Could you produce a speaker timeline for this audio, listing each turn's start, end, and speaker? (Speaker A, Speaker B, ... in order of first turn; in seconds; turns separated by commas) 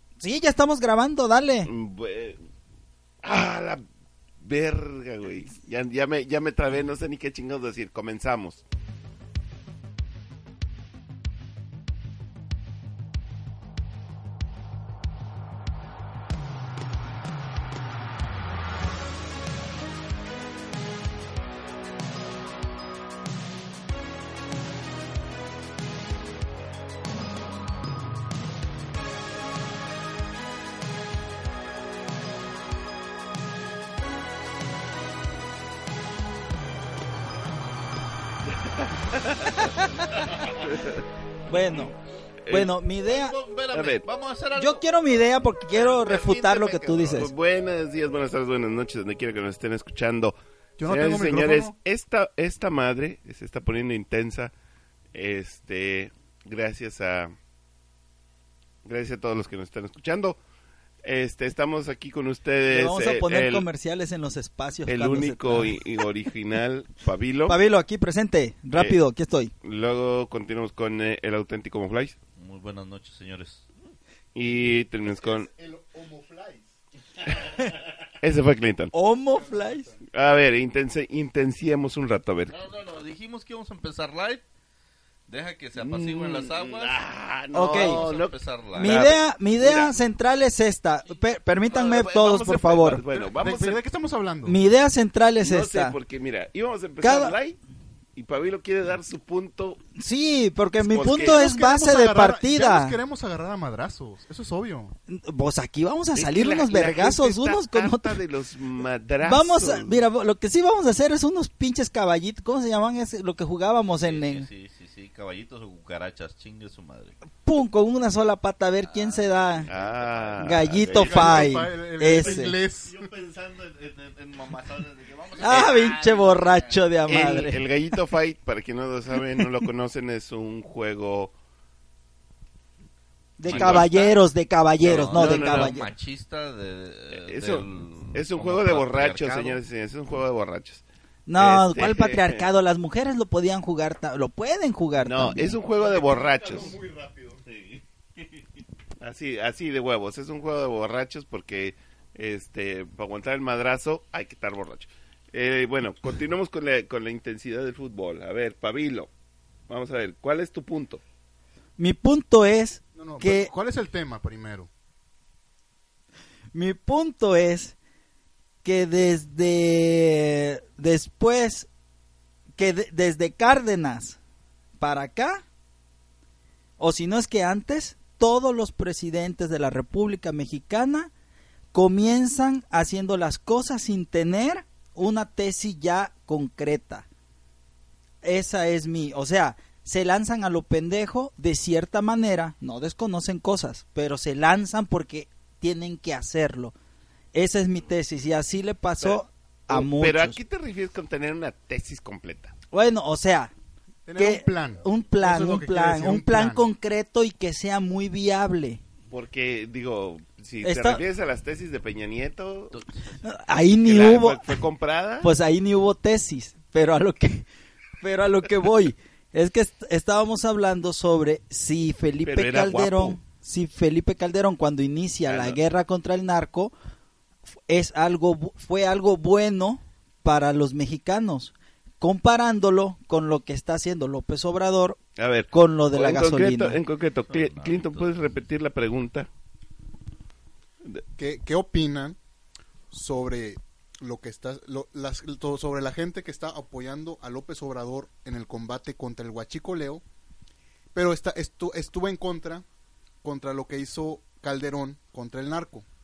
Speaker A: 0.2-1.7, Speaker B: 1.6-2.4, Speaker B: 3.2-3.8, Speaker B: 4.4-8.6, Speaker B: 38.8-39.5, Speaker A: 39.5-40.3, Speaker B: 40.6-41.0, Speaker A: 41.5-42.0, Speaker B: 42.4-42.7, Speaker A: 42.5-43.3, Speaker C: 43.0-44.8, Speaker B: 43.7-44.0, Speaker A: 44.5-47.3, Speaker B: 45.7-54.5, Speaker D: 50.8-51.7, Speaker B: 55.1-57.3, Speaker B: 58.8-60.4, Speaker B: 61.0-63.7, Speaker A: 62.7-65.8, Speaker B: 64.9-67.6, Speaker A: 67.5-69.5, Speaker B: 69.6-72.2, Speaker C: 72.4-73.6, Speaker B: 74.3-75.5, Speaker D: 75.2-77.6, Speaker B: 78.2-78.9, Speaker A: 78.9-79.9, Speaker D: 79.3-80.0, Speaker B: 80.1-82.5, Speaker C: 82.5-84.4, Speaker C: 85.3-87.0, Speaker B: 85.8-89.9, Speaker A: 87.5-88.0, Speaker C: 87.7-89.0, Speaker A: 88.7-93.0, Speaker B: 91.7-93.8, Speaker D: 93.1-94.6, Speaker A: 94.5-96.0, Speaker B: 95.4-97.6, Speaker A: 97.0-97.3, Speaker B: 98.2-99.8, Speaker A: 100.0-103.0, Speaker B: 100.8-101.4, Speaker D: 101.0-105.0, Speaker A: 105.1-108.2, Speaker B: 106.1-110.0, Speaker A: 109.2-114.5, Speaker C: 114.0-117.2, Speaker A: 117.4-119.7, Speaker C: 118.9-120.7, Speaker B: 119.7-121.5, Speaker A: 120.4-122.5, Speaker D: 121.0-123.1, Speaker C: 122.1-126.8, Speaker A: 125.4-127.6, Speaker B: 127.1-131.3, Speaker A: 133.4-135.9, Speaker C: 133.4-134.2, Speaker B: 133.5-133.9, Speaker C: 134.8-139.6, Speaker B: 134.8-135.8, Speaker B: 137.1-140.8, Speaker A: 141.3-145.6, Speaker B: 141.3-142.4, Speaker B: 145.0-146.8, Speaker D: 145.7-147.4, Speaker C: 147.4-148.6, Speaker B: 149.0-159.1, Speaker B: 159.7-161.0, Speaker A: 161.8-163.5, Speaker D: 162.9-164.7, Speaker A: 166.5-167.8, Speaker A: 168.6-171.7, Speaker A: 172.6-174.2, Speaker A: 174.8-175.4, Speaker A: 176.8-181.1, Speaker A: 181.7-187.1, Speaker A: 188.2-196.7, Speaker A: 197.3-200.4, Speaker B: 199.0-202.5, Speaker A: 202.7-203.5, Speaker D: 204.1-206.6, Speaker A: 204.2-208.8, Speaker B: 209.1-212.8, Speaker A: 210.6-211.0, Speaker A: 213.2-214.6, Speaker B: 213.8-215.3, Speaker A: 215.2-217.5, Speaker A: 218.0-226.7, Speaker B: 222.2-223.2, Speaker B: 225.3-225.6, Speaker A: 227.7-235.0, Speaker B: 235.2-239.3, Speaker A: 235.5-236.8, Speaker C: 237.3-238.4, Speaker D: 241.2-242.2, Speaker D: 242.9-250.0, Speaker D: 250.9-252.6, Speaker D: 253.2-255.8